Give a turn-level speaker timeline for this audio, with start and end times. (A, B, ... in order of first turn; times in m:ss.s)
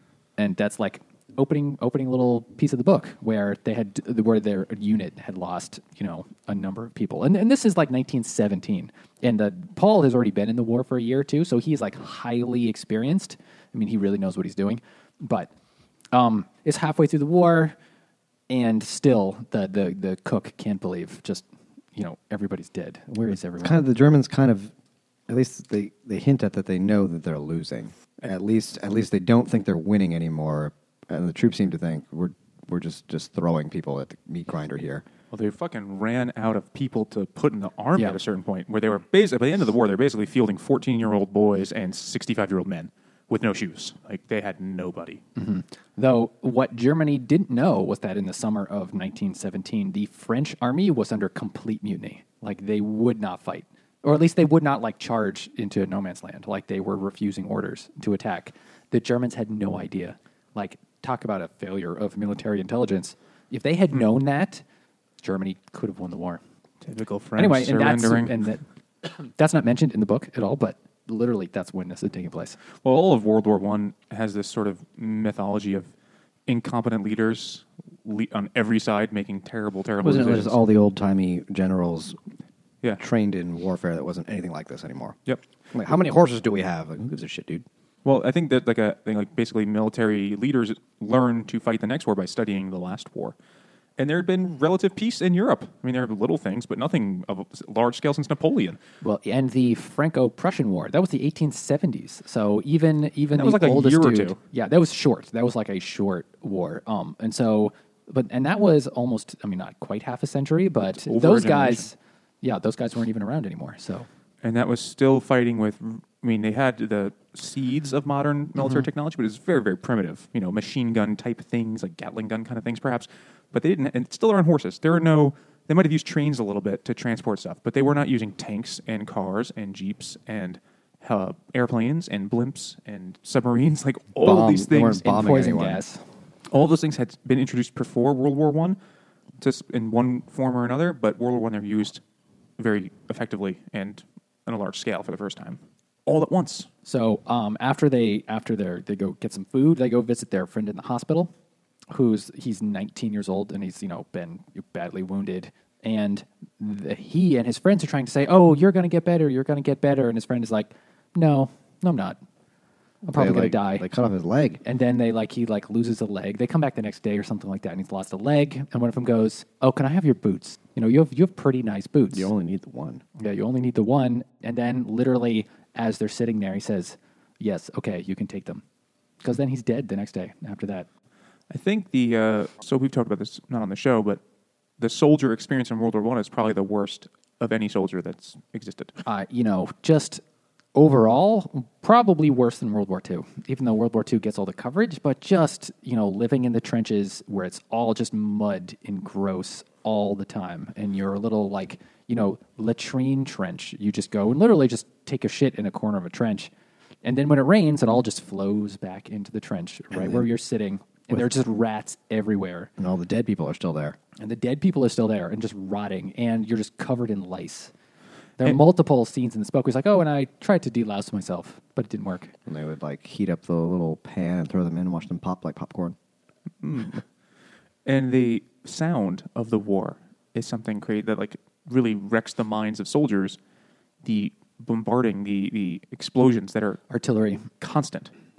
0:00.4-0:15.5 A
0:16.1-0:17.8 A
0:18.5-0:21.4 A
0:22.0-0:23.8 A
0:23.6-0:24.7 B
0:25.3-0:35.0 B
0:35.3-0:45.2 C
0:45.4-1:04.6 A
1:05.2-1:06.4 A
1:06.8-1:08.3 C
1:07.4-1:12.6 A
1:12.8-1:15.9 C
1:16.5-1:20.6 C
1:20.0-1:22.2 B
1:23.0-1:25.2 B
1:25.7-1:27.6 B
1:28.0-1:33.3 C
1:34.0-1:38.8 C
1:39.0-1:54.1 A
1:43.3-1:44.4 C
1:50.9-1:51.8 C
1:54.4-2:15.0 C
2:14.2-2:15.8 B
2:15.0-2:16.0 A
2:16.5-2:18.8 C
2:19.4-2:22.0 C
2:22.6-2:26.7 C
2:26.8-2:31.3 A
2:31.9-2:42.2 A
2:43.0-2:43.9 A
2:43.1-2:44.6 B
2:44.6-2:52.3 A
2:52.1-2:53.0 B
2:53.2-2:58.6 A
2:59.2-3:00.9 A
3:01.5-3:04.2 C
3:04.8-3:09.0 C
3:09.0-3:10.2 A
3:10.7-3:26.5 A
3:27.0-3:32.7 A
3:29.9-3:30.2 B
3:32.8-3:34.0 B
3:34.2-3:37.7 A
3:38.4-3:42.3 A
3:42.4-3:46.0 B
3:46.6-3:47.0 C
3:47.8-3:53.4 C
3:54.0-3:56.8 C
3:56.9-3:57.5 A
3:57.6-3:58.1 C